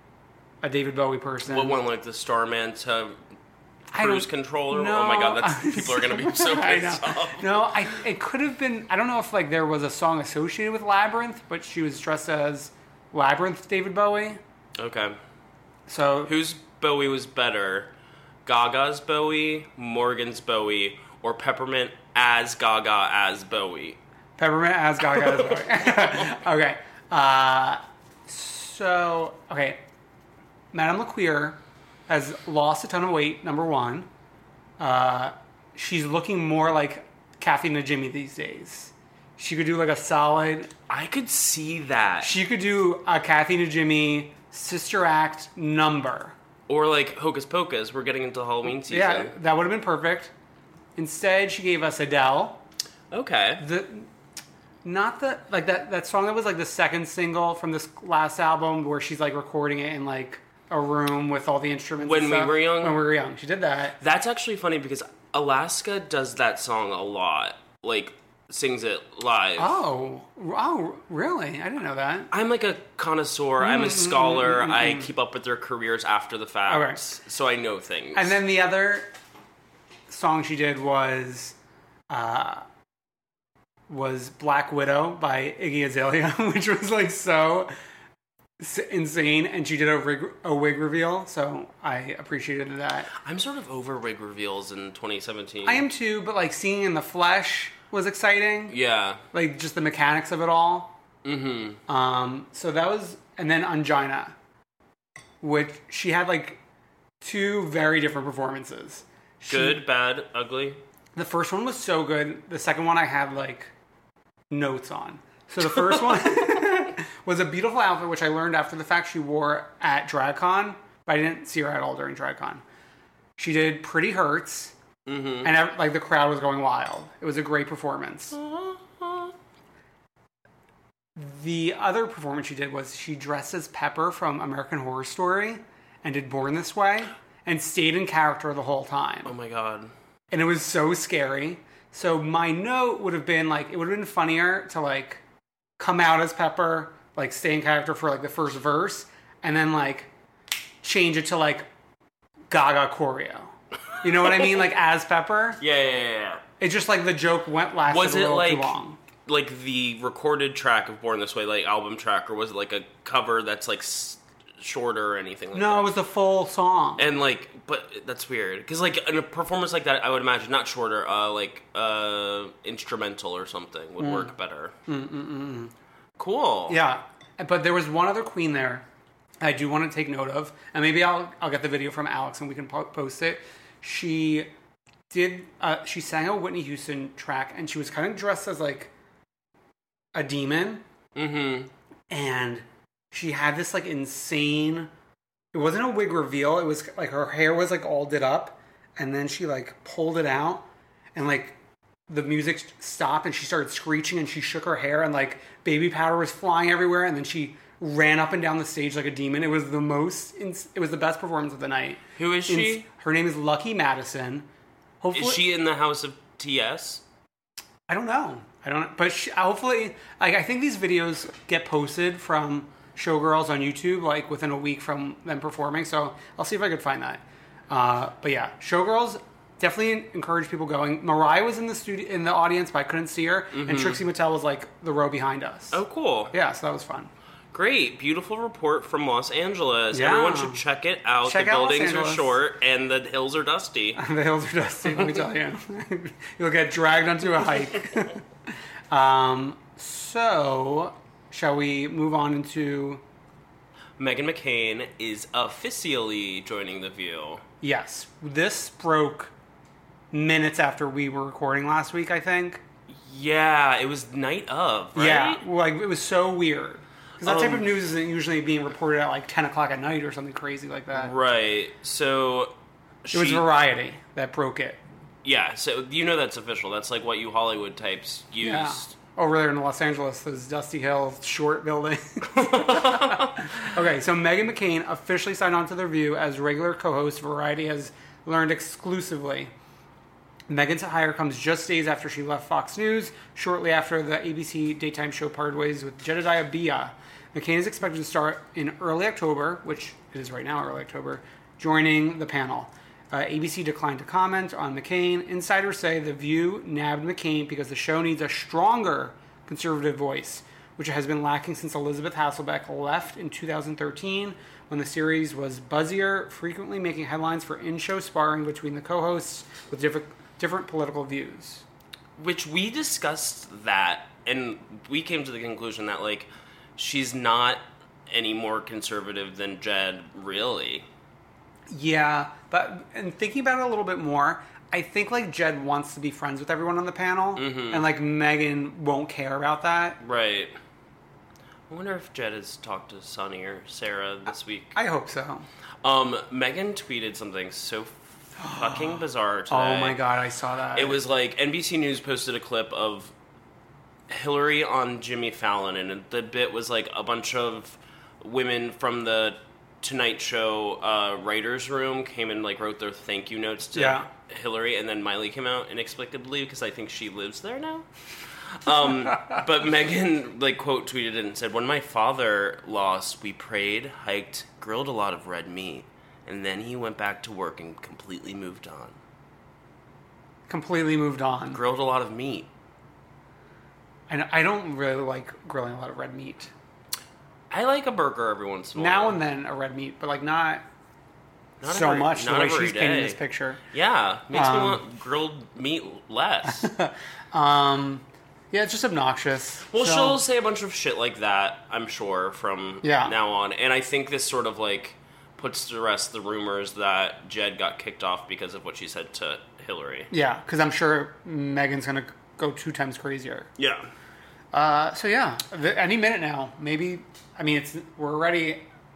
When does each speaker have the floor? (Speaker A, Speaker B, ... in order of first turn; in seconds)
Speaker A: 0.6-1.8, 3.9-14.4, 15.9-16.3, 24.4-29.8, 30.7-34.1, 34.8-40.7, 42.2-46.3, 48.8-50.3, 51.0-52.6, 53.6-54.1, 54.8-64.0, 69.6-72.3, 73.6-75.1, 76.7-77.0, 78.1-79.1, 80.1-81.5, 82.1-82.6, 83.9-87.7, 88.6-93.1, 95.6-98.7, 99.3-101.0, 101.9-104.3, 105.4-106.6, 107.2-109.8, 111.1-113.7, 114.5-122.6, 123.4-124.7, 125.4-128.4, 131.2-139.3, 140.3-145.2, 145.8-150.1, 150.8-151.7, 152.5-155.6, 156.6-159.0, 165.5-167.1, 174.0-174.3, 174.9-175.7, 176.7-178.8, 179.4-184.5, 185.1-188.9, 190.1-190.8, 192.1-194.9, 195.5-201.6, 202.1-214.5, 215.0-215.4, 217.9-235.8, 236.3-237.1, 239.9-240.6, 241.2-242.3, 244.0-248.2, 248.9-253.0, 257.6-259.3, 260.1-262.6, 264.9-271.1, 273.1-274.8, 278.4-289.5, 290.5-321.6, 331.7-340.0, 344.7-345.5, 348.4-349.0, 349.5-351.0, 363.7-364.1, 380.5-381.6, 384.1-386.5, 388.8-390.6, 391.6-393.6, 394.3-394.8, 396.5-400.2, 402.8-403.1, 410.1-413.5, 414.5-418.6
Speaker B: 1.4-3.2, 4.0-7.9, 14.8-15.2, 16.2-17.9, 18.4-24.0, 40.9-42.4, 46.7-49.3, 53.1-53.6, 62.0-63.0, 64.0-69.8, 72.3-78.4, 93.2-95.8, 98.7-99.2, 101.2-101.8, 109.5-110.8, 115.7-116.3, 125.0-125.5, 128.3-129.3, 139.2-139.9, 154.2-154.7, 155.6-156.4, 157.9-165.9, 167.0-174.7, 176.2-176.8, 191.2-191.7, 212.2-212.8, 215.1-217.0, 233.5-234.0, 235.7-236.3, 237.5-244.0, 254.0-257.4, 262.9-265.4, 267.2-267.7, 270.9-272.5, 273.0-273.4, 275.2-278.9, 282.4-283.5, 322.2-330.9, 337.4-337.9, 340.0-340.5, 341.7-344.8, 345.8-350.0, 350.7-353.1, 354.1-367.9, 368.5-379.0, 381.5-382.5, 387.5-389.2, 391.6-393.2, 393.7-396.7, 399.7-410.1, 413.6-413.9